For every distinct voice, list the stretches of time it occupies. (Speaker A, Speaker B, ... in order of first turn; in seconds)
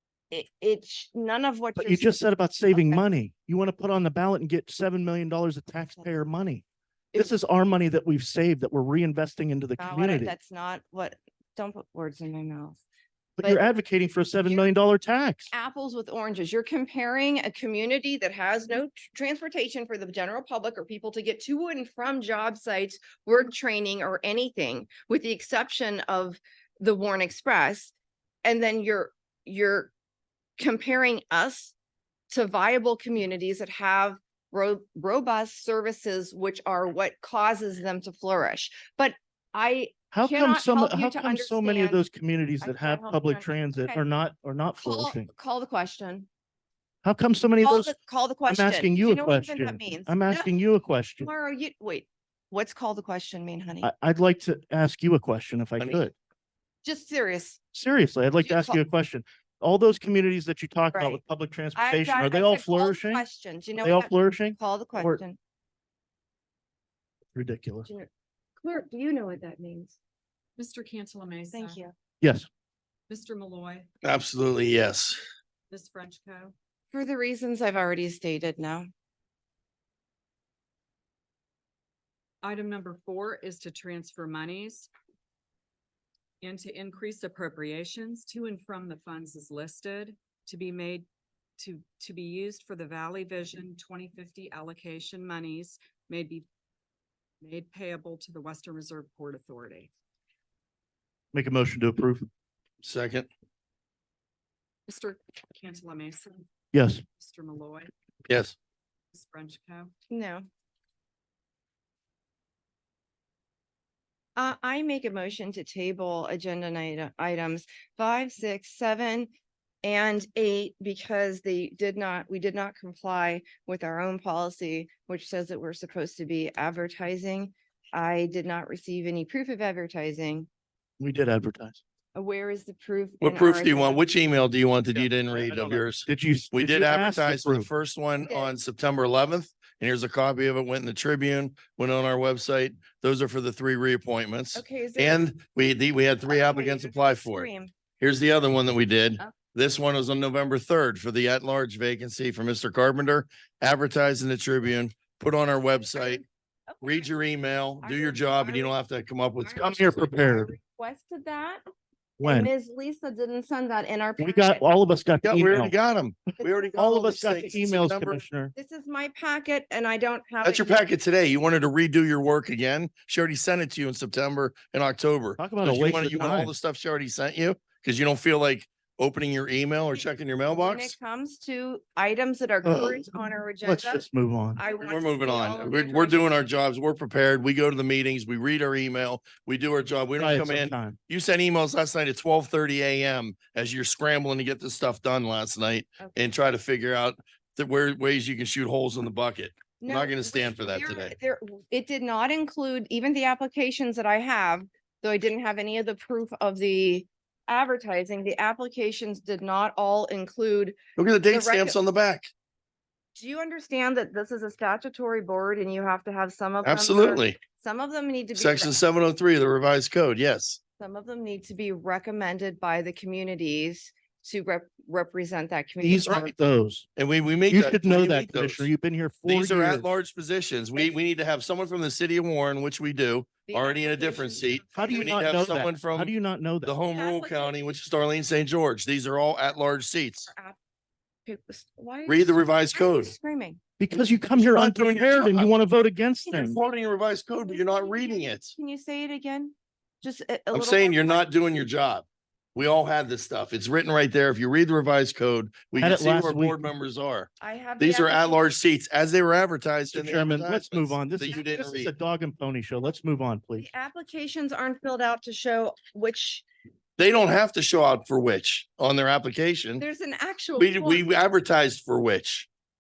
Speaker A: 0.3-3.0, 5.8-6.2, 9.8-12.8, 15.5-27.9, 28.4-29.9, 30.6-31.7, 32.3-42.0, 42.6-44.0, 44.8-46.3, 47.6-50.5, 51.2-53.9, 56.8-57.6, 58.4-58.8, 60.9-61.2, 61.8-65.4, 67.8-70.0, 71.5-71.9, 76.9-78.9, 110.1-110.5, 114.4-119.3, 119.8-130.5, 132.2-134.0, 138.2-138.5, 144.6-145.3, 146.3-147.7, 155.9-157.1, 157.8-158.8, 159.4-161.6, 162.2-164.6, 166.4-166.7, 168.5-170.9, 180.5-184.1, 184.6-186.3, 199.8-211.8, 213.2-218.7, 220.8-226.3, 233.5-235.4, 236.9-237.6, 240.2-240.6, 241.3-243.6, 246.3-246.5, 247.5-251.3, 257.4-258.6, 261.3-261.6, 263.6-266.4, 269.8-271.1
Speaker B: 1.8-6.6, 7.2-10.3, 13.4-15.5, 40.1-45.3, 47.0-48.0, 48.5-51.3, 53.8-56.1, 57.7-63.2, 63.8-65.2, 67.3-67.9, 72.2-72.5, 101.3-102.3, 106.7-107.0, 131.0-131.8, 134.9-137.7, 159.6-160.5, 162.2-162.5, 164.2-165.7, 166.3-168.5, 175.4-176.5, 182.6-183.1, 183.6-184.6, 190.2-191.0, 225.8-226.9, 227.5-229.9, 234.7-236.7, 243.8-246.6, 255.8-256.6, 259.9-263.7
Speaker C: 55.8-56.1, 74.0-75.2, 102.8-103.3, 108.3-108.5, 133.2-147.5, 148.0-156.2, 156.8-159.9, 165.2-168.2, 170.4-180.9, 184.8-201.2, 211.0-212.3, 216.6-217.4, 218.3-220.6, 226.1-226.3, 227.0-228.7, 229.3-240.3, 242.1-243.2, 244.4-245.5, 246.3-248.5, 250.5-261.9, 267.0-269.8, 270.6-272.5
Speaker D: 70.6-71.8, 73.1-73.9, 75.7-76.5, 82.4-84.9, 86.4-91.1, 91.6-96.5, 97.4-99.9, 104.9-106.5, 107.2-107.9, 109.1-109.9